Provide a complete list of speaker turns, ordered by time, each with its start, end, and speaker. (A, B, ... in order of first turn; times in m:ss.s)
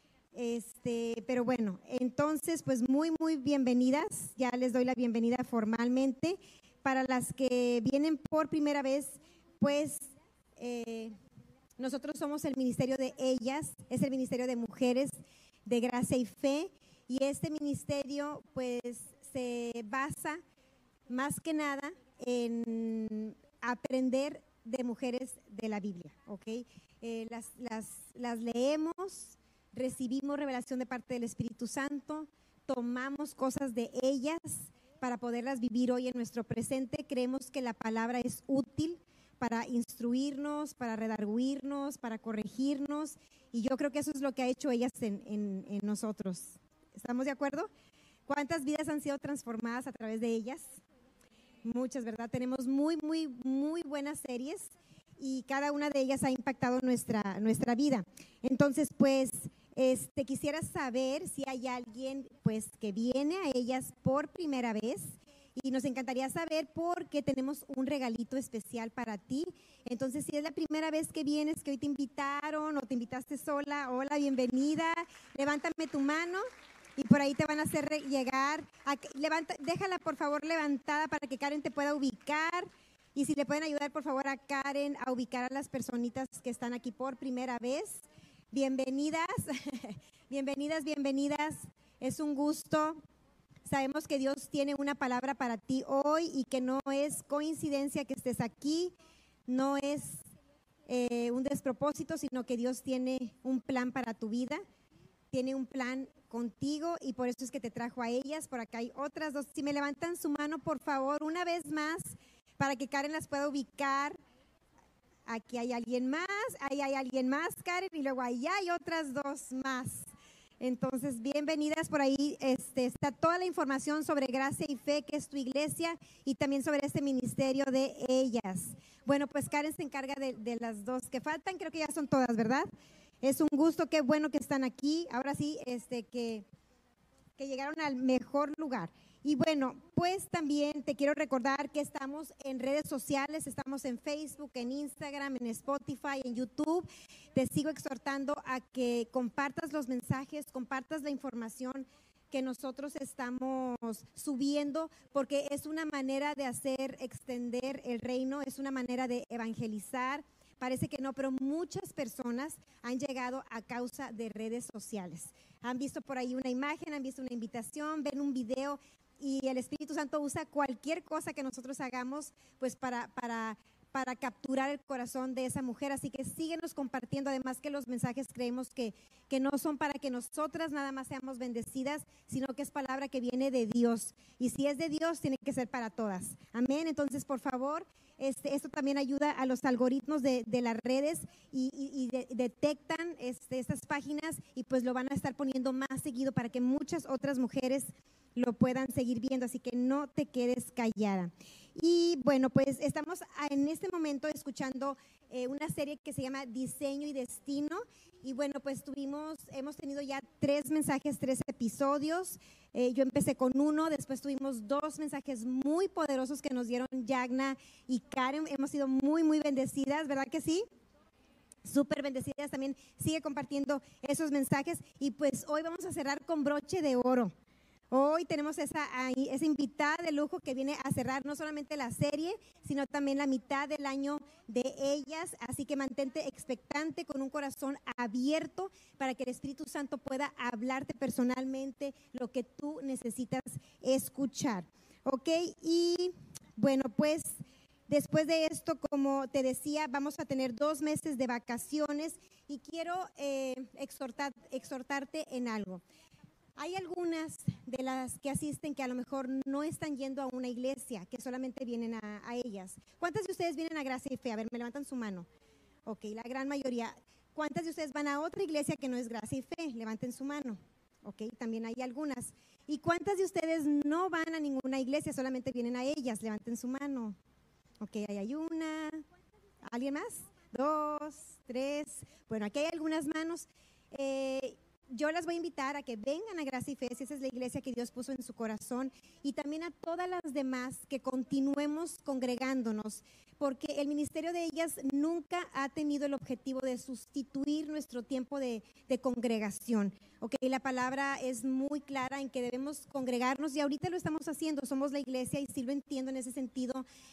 0:00.3-0:11.2 A
0:11.8-0:20.4 A
0:21.1-0:47.7 A
0:48.3-0:50.8 A
0:51.6-1:16.4 A
1:17.0-1:33.0 A
1:33.6-1:38.9 A
1:39.5-1:40.2 A
1:40.9-1:44.6 A
1:45.3-1:54.2 A
1:55.2-2:00.1 A
2:00.6-2:12.7 A
2:13.2-2:16.4 A
2:17.4-3:40.6 A
3:41.6-3:47.3 A
3:47.9-4:15.8 A
4:16.6-4:25.3 A
4:25.8-4:37.2 A
4:37.8-4:39.0 A
4:39.6-5:06.8 A